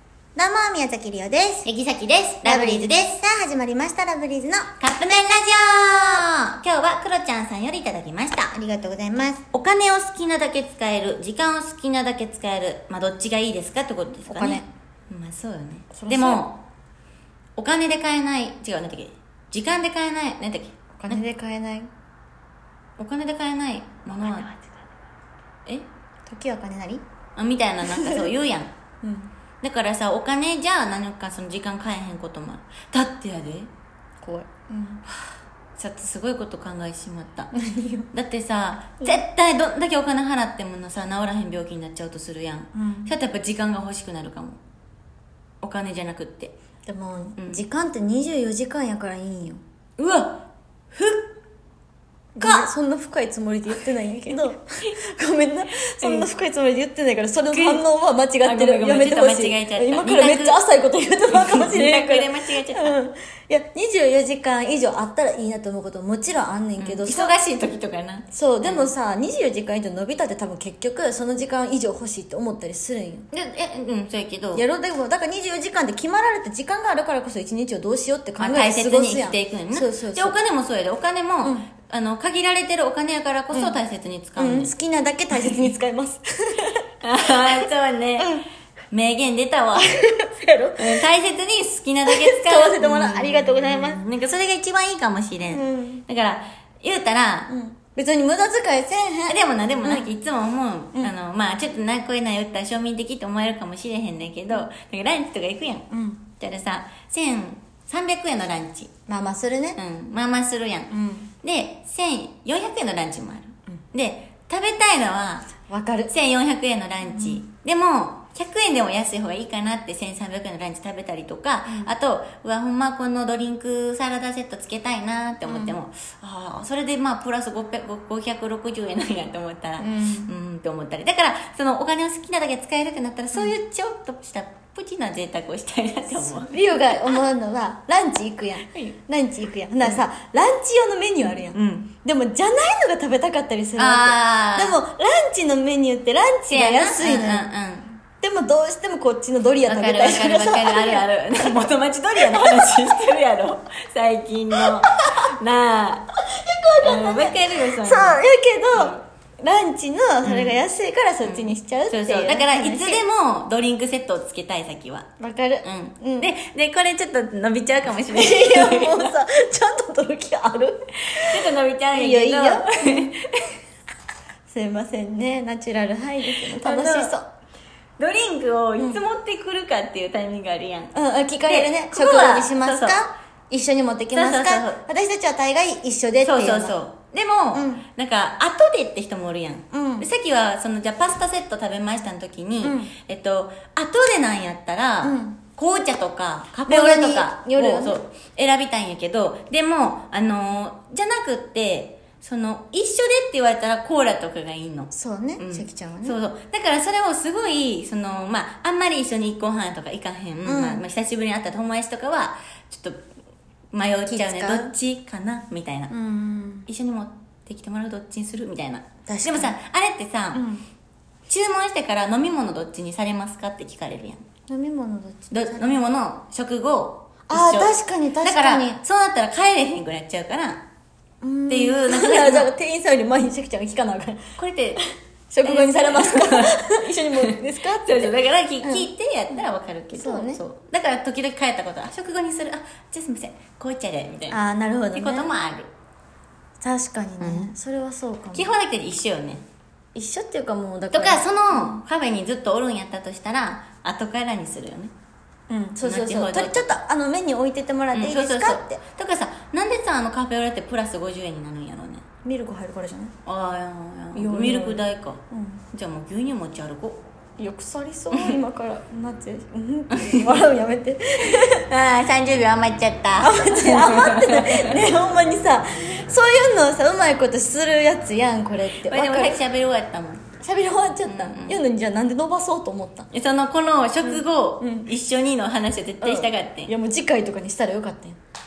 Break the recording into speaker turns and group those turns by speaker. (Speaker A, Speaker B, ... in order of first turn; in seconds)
Speaker A: 0.3-1.7, 2.4-4.7, 8.8-9.4, 14.3-14.7, 15.9-16.5, 21.0-21.9, 26.3-27.0, 27.9-28.2, 29.0-29.3, 34.2-35.0, 37.5-38.1, 42.8-43.1, 46.9-49.6, 52.4-67.3, 68.3-73.3, 74.5-80.4, 84.4-86.8, 88.2-88.5, 89.8-91.1, 92.1-94.0, 95.5-96.0, 97.5-100.1, 105.9-106.2, 109.1-109.8, 110.9-111.3, 115.7-116.1, 117.1-117.4, 121.7-121.9, 125.5-125.8, 129.8-130.3, 136.2-147.5, 148.2-151.7, 152.2-152.8, 156.3-163.0, 165.2-166.3, 168.1-173.2, 174.5-177.3, 180.9-186.8, 187.5-187.8, 189.7-190.1, 192.6-192.9, 195.0-195.4, 196.7-198.0, 204.9-206.2, 210.4-210.8, 214.1-214.8, 215.9-216.7, 219.1-219.6, 220.3-220.6, 224.5-225.8, 227.3-228.8, 231.2-234.2, 235.3-238.9, 239.9-240.4, 244.3-245.3, 246.6-248.5, 249.9-251.8, 255.5-258.8, 262.2-263.1, 264.1-265.6, 267.4-271.6, 273.2-279.4, 280.4-283.1, 284.0-284.9, 286.0-288.2
Speaker B: 1.6-3.2, 4.8-8.6, 9.4-16.6, 17.6-21.2, 23.0-24.5, 27.4-28.7, 29.6-33.7, 35.8-37.5, 38.1-44.6, 45.6-46.5, 47.4-47.6, 50.0-51.3, 52.4-52.7, 56.0-56.3, 57.5-57.8, 58.4-60.6, 61.3-63.0, 66.8-68.9, 73.3-74.7, 78.4-84.7, 85.3-85.7, 87.0-89.9, 90.8-97.5, 99.3-108.9, 109.8-115.5, 116.1-137.2, 138.6-139.0, 141.2-142.0, 143.8-144.8, 146.5-148.0, 149.7-156.1, 156.8-158.2, 158.7-159.0, 160.2-160.6, 161.2-165.1, 165.6-169.1, 170.9-173.4, 176.3-177.2, 178.0-180.9, 181.5-183.0, 184.1-184.8, 186.2-213.0, 213.7-215.9, 216.7-220.4, 221.3-224.2, 225.3-230.7, 231.5-232.5, 234.4-234.8, 235.4-244.4, 244.9-245.7, 247.2-247.5, 248.3-249.4, 250.9-254.9, 255.8-256.7, 257.9-262.1, 263.2-267.0, 268.1-268.4, 269.9-270.4, 271.3-274.8, 278.7-280.3, 281.0-281.6, 283.1-286.7